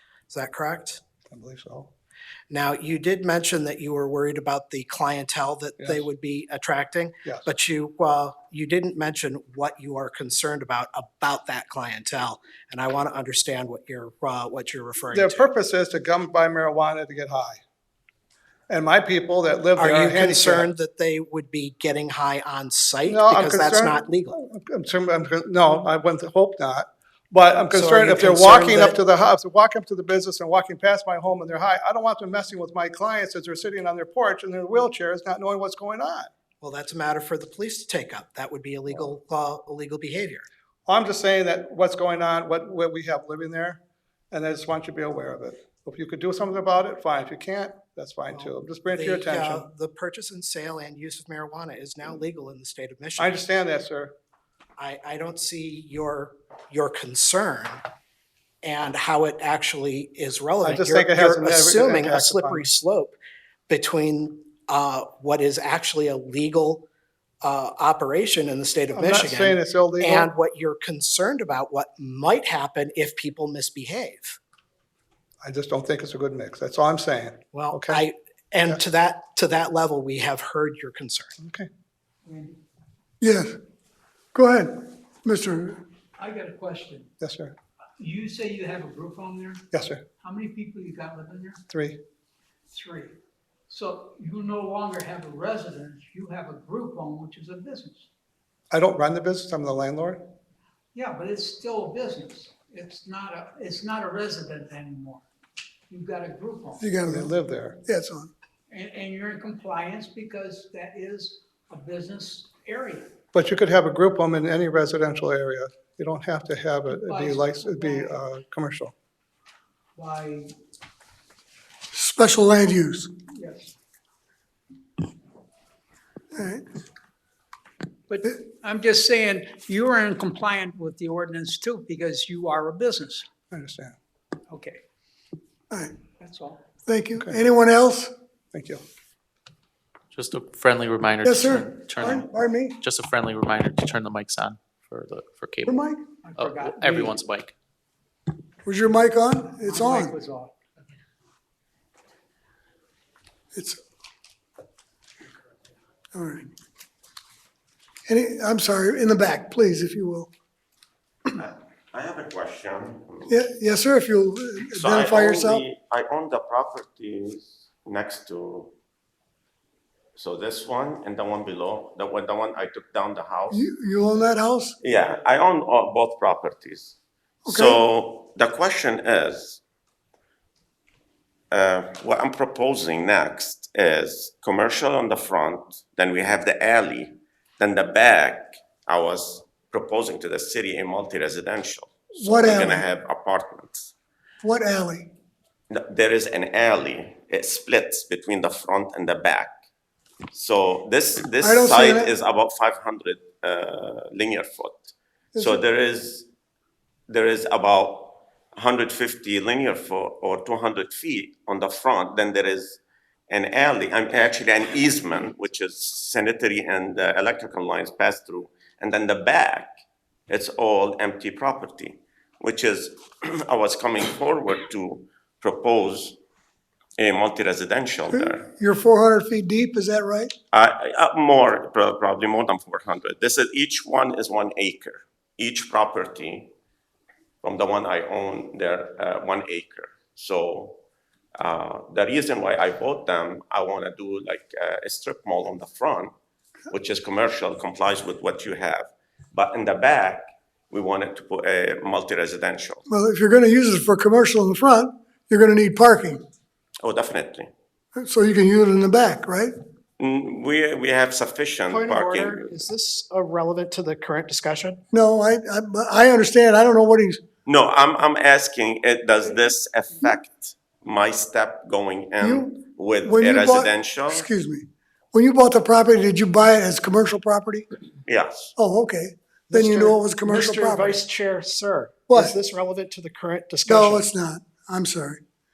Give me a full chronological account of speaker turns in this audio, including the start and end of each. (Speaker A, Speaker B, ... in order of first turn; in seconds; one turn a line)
Speaker A: 0.3-1.0
Speaker B: 1.3-1.9
Speaker A: 2.5-15.5
Speaker B: 15.1-17.6
Speaker B: 18.7-20.7
Speaker A: 19.8-24.4
Speaker B: 23.1-36.3
Speaker A: 27.7-29.0
Speaker A: 36.6-40.5
Speaker B: 40.9-43.8
Speaker B: 44.3-49.7
Speaker A: 48.3-53.4
Speaker B: 53.2-54.1
Speaker A: 54.8-57.8
Speaker A: 58.6-63.2
Speaker B: 60.6-62.7
Speaker A: 63.7-66.9
Speaker A: 67.4-74.4
Speaker B: 68.9-70.3
Speaker B: 75.4-78.0
Speaker A: 77.5-81.4
Speaker B: 81.4-81.7
Speaker C: 82.3-82.6
Speaker D: 83.2-83.6
Speaker D: 84.3-85.8
Speaker C: 86.2-87.1
Speaker B: 87.2-87.5
Speaker C: 88.0-89.7
Speaker B: 89.7-90.0
Speaker C: 90.2-91.6
Speaker B: 91.7-92.0
Speaker C: 92.7-93.1
Speaker C: 93.7-98.0
Speaker B: 98.7-100.2
Speaker C: 100.9-105.2
Speaker C: 105.9-106.9
Speaker D: 106.8-107.3
Speaker B: 107.1-107.8
Speaker D: 107.8-108.3
Speaker C: 108.7-113.1
Speaker B: 113.3-118.9
Speaker C: 116.9-118.2
Speaker C: 120.0-120.5
Speaker D: 121.9-123.1
Speaker C: 123.3-123.7
Speaker D: 126.3-126.6
Speaker C: 128.1-133.3
Speaker B: 133.5-133.9
Speaker C: 134.5-134.8
Speaker C: 136.2-136.6
Speaker D: 136.9-138.1
Speaker B: 138.5-138.8
Speaker E: 140.1-145.8
Speaker D: 141.2-142.8
Speaker D: 145.7-146.0
Speaker C: 146.2-147.2
Speaker E: 146.4-147.5
Speaker D: 148.7-150.2
Speaker C: 149.6-150.5
Speaker D: 153.6-153.8
Speaker D: 156.1-156.5
Speaker D: 158.1-160.3
Speaker F: 161.3-163.4
Speaker D: 163.3-165.6
Speaker F: 164.7-168.7
Speaker F: 170.2-173.6
Speaker D: 173.5-174.8
Speaker F: 174.8-179.6
Speaker D: 177.5-177.8
Speaker F: 181.5-193.9
Speaker D: 192.2-192.9
Speaker D: 194.4-195.1
Speaker F: 195.7-199.6
Speaker F: 200.3-206.3
Speaker D: 201.4-202.1
Speaker F: 207.1-219.7
Speaker F: 220.3-226.2
Speaker F: 227.0-228.5
Speaker D: 228.1-230.3
Speaker F: 230.5-236.5
Speaker F: 237.4-240.8
Speaker F: 241.4-246.1
Speaker F: 246.7-252.8
Speaker D: 252.9-256.2
Speaker F: 256.8-257.5
Speaker D: 258.0-259.5
Speaker F: 260.0-262.5
Speaker A: 261.7-264.8
Speaker D: 264.9-267.2
Speaker F: 267.5-274.3
Speaker D: 272.2-272.5
Speaker D: 273.0-277.7
Speaker F: 278.1-278.5
Speaker D: 278.6-281.0
Speaker A: 279.5-284.1
Speaker D: 282.1-282.4
Speaker D: 283.6-285.2